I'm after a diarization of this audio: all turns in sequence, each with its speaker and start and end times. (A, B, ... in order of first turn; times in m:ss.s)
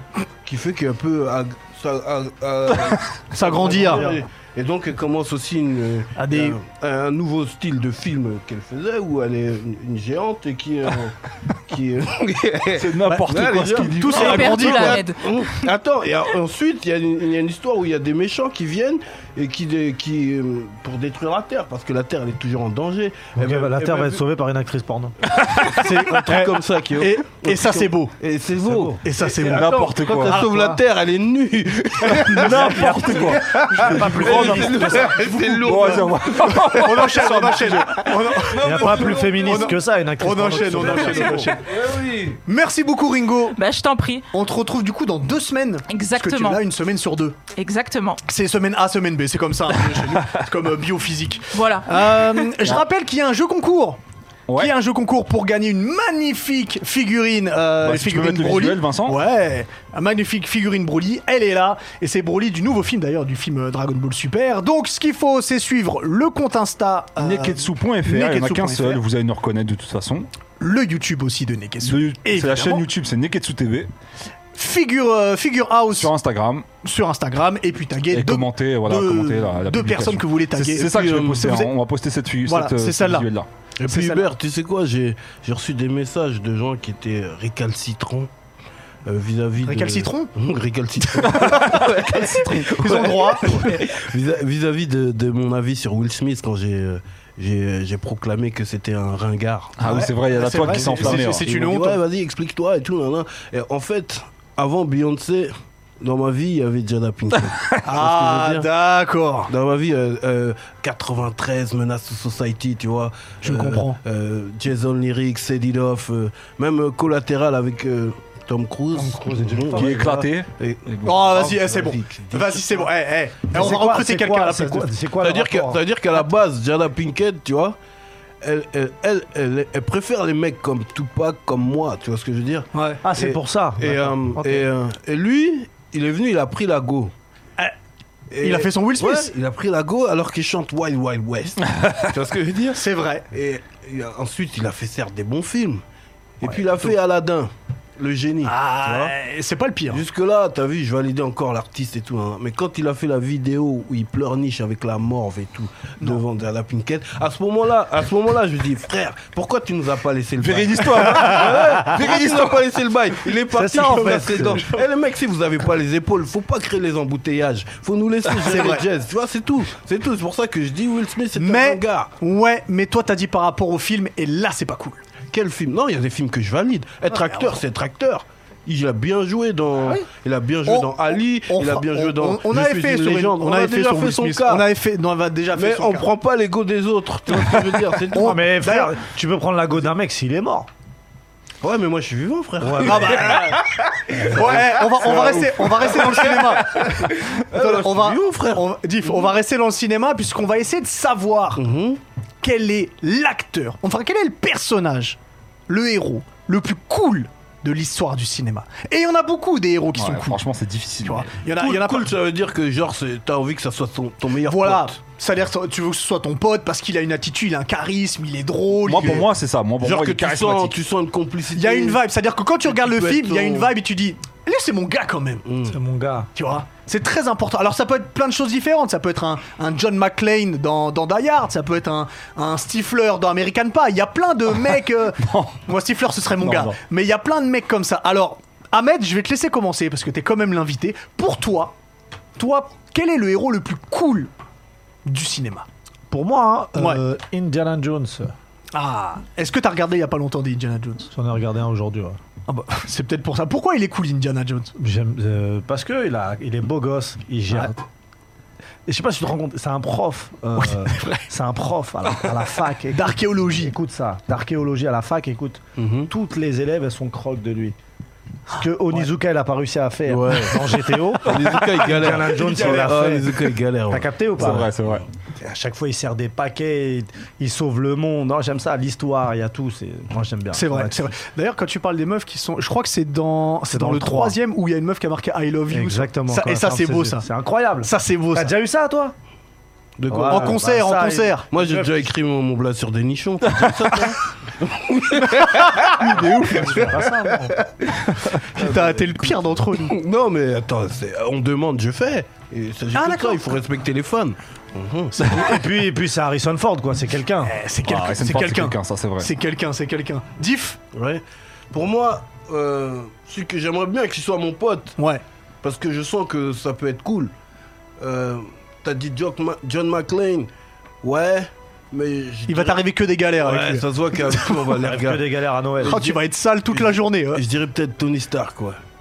0:00.4-0:24.2 A
0:03.3-0:04.1 B
0:03.6-0:04.2 C
0:06.2-0:06.6 B
0:12.8-0:14.8 D
0:13.0-0:15.0 B
0:14.0-0:15.4 E
0:23.4-0:25.2 C
0:25.4-0:37.5 A
0:25.6-0:28.2 B
0:28.6-0:29.0 C
0:29.0-0:29.7 B
0:29.4-0:30.4 D
0:30.3-0:30.7 B
0:30.5-0:30.8 C
0:32.1-0:35.1 D
0:32.4-0:35.0 C
0:33.8-0:36.1 B
0:35.6-0:38.2 D
0:36.7-0:41.5 B
0:38.5-0:39.8 A
0:38.6-0:41.5 C
0:40.5-0:42.4 A
0:42.5-0:43.6 B
0:43.6-0:44.3 E
0:44.3-0:47.4 B
0:45.9-0:46.6 E
0:47.6-0:48.2 E
0:48.3-0:54.0 B
0:50.0-0:50.3 D
0:51.5-0:52.5 E
0:54.5-1:09.0 B
0:57.8-0:59.2 D
1:07.2-1:10.3 D
1:10.6-1:12.8 B
1:11.8-1:13.9 D
1:14.6-1:16.1 B
1:15.9-1:16.7 D
1:16.8-1:21.7 B
1:18.1-1:23.5 D
1:20.8-1:21.4 A
1:22.4-1:23.3 B
1:23.8-1:28.3 A
1:23.9-1:24.3 B
1:29.0-1:48.7 A
1:29.6-1:30.3 B
1:31.1-1:33.8 B
1:39.8-1:41.4 D
1:39.9-1:42.0 B
1:47.8-1:49.5 B
1:49.5-2:02.9 A
1:53.4-1:54.0 B
1:58.9-2:00.3 C
1:59.8-2:01.0 D
2:01.0-2:04.9 B
2:03.5-2:05.8 C
2:05.2-2:07.8 A
2:08.4-2:17.1 A
2:12.7-2:13.0 B
2:13.0-2:14.7 C
2:18.3-2:25.8 A
2:18.4-2:19.3 B
2:22.8-2:23.3 B
2:26.4-2:29.1 A
2:26.4-2:26.9 B
2:28.4-2:30.0 B
2:29.9-2:52.1 A
2:40.4-2:42.6 D
2:43.5-2:44.6 C
2:43.7-2:44.8 B
2:48.5-2:48.8 B
2:51.4-2:55.0 B
2:55.3-3:04.7 A
2:57.1-2:57.6 B
3:00.7-3:06.1 B
3:05.5-3:08.4 A
3:08.1-3:09.0 B
3:08.2-3:10.7 C
3:11.6-3:19.3 A
3:12.6-3:13.5 C
3:12.8-3:21.6 B
3:21.6-3:22.0 A
3:22.4-3:25.2 B
3:25.7-3:30.4 B
3:30.0-3:31.3 D
3:31.0-3:32.1 B
3:31.6-3:35.0 A
3:34.5-3:39.2 B
3:38.8-3:40.8 D
3:39.8-3:42.0 A
3:41.6-3:45.4 B
3:42.7-3:43.7 A
3:45.4-3:45.8 A
3:45.7-3:46.3 C
3:46.4-4:01.8 B
3:55.2-3:55.6 D
3:56.4-3:56.8 D
4:02.4-4:04.3 B
4:05.1-4:05.7 B
4:06.1-4:08.3 C
4:06.8-4:07.0 B
4:08.7-4:11.1 B
4:11.1-4:12.2 C
4:12.5-4:14.7 B
4:14.8-4:17.8 C
4:18.9-4:27.8 C
4:20.6-4:21.2 B
4:22.9-4:23.7 B
4:25.8-4:26.1 A
4:28.5-4:34.7 C
4:30.1-4:34.7 A
4:32.0-4:33.0 B
4:34.4-4:35.0 D
4:35.4-4:41.1 C
4:40.5-4:47.3 B
4:43.7-4:44.4 C
4:45.7-4:49.1 C
4:47.8-4:48.5 B
4:50.0-4:50.6 A
4:50.1-4:51.9 C
4:50.3-4:51.5 B
4:51.5-4:57.3 A
4:55.4-4:55.7 B
4:56.0-4:56.9 D
4:56.6-4:57.6 C
4:58.3-5:00.0 B
4:58.5-5:05.5 A
5:02.9-5:03.5 B
5:05.1-5:05.6 B
5:05.3-5:07.6 C
5:07.4-5:10.8 B
5:07.9-5:09.3 D
5:10.9-5:15.0 A
5:15.0-5:15.2 B
5:15.6-5:17.3 A
5:18.0-5:20.5 A
5:21.0-5:22.8 A
5:22.5-5:24.6 B
5:23.4-5:28.8 A
5:24.8-5:26.0 C
5:25.8-5:27.4 B